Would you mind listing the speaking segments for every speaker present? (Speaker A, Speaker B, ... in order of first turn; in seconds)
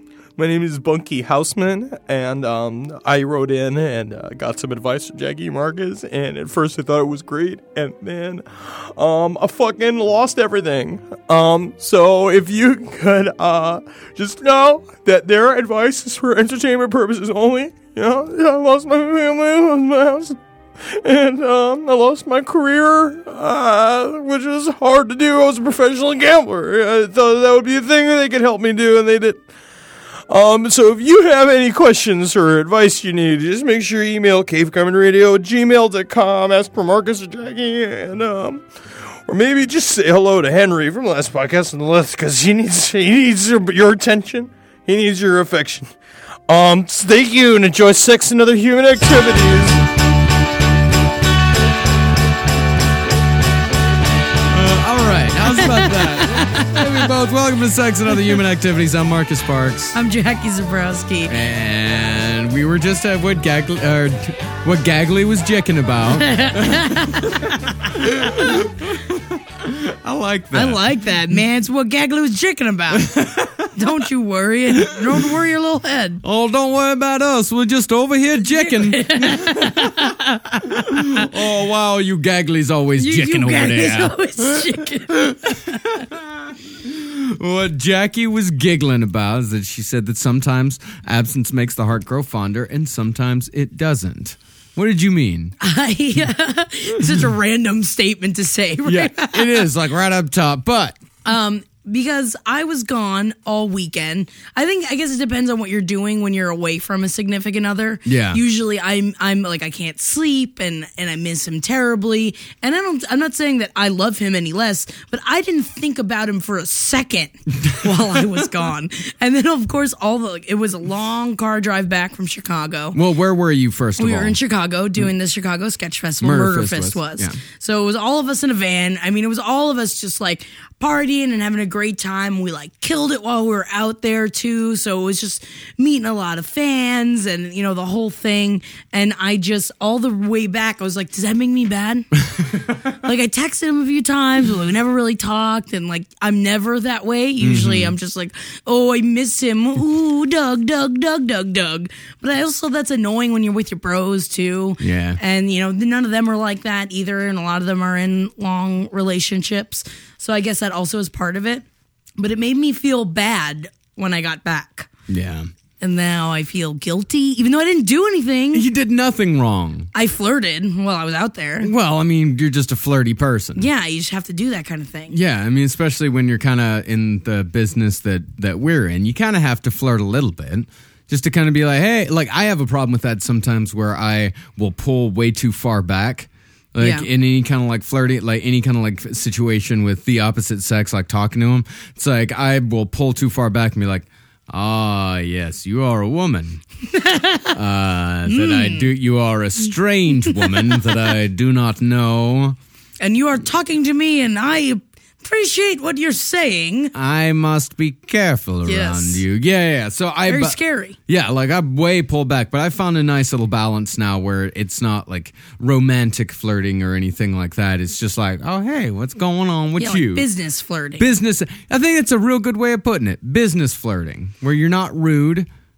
Speaker A: 0.4-29.4, 30.3-46.0, 46.5-49.8
Speaker B: 54.5-60.0, 61.3-70.8, 72.9-74.0, 76.2-80.1, 80.9-95.5, 98.9-101.0, 108.1-108.4, 122.9-124.4, 126.2-127.4, 147.4-147.9, 154.8-155.2, 165.1-165.5, 168.5-169.9, 171.6-173.7, 175.1-196.6, 197.5-202.6, 206.9-210.6, 211.1-220.3, 221.0-225.5
Speaker C: 55.6-57.0, 59.9-61.4, 66.1-67.4, 70.5-73.1, 73.8-76.2, 78.7-81.3, 83.0-85.9, 95.6-99.7, 101.2-123.0, 124.0-142.1, 142.8-161.7, 162.2-164.9, 165.8-168.7, 169.9-171.7, 173.6-175.2, 186.8-187.1, 196.9-197.6, 198.3-198.9, 203.0-206.9, 208.7-209.2, 210.3-211.0, 219.8-221.1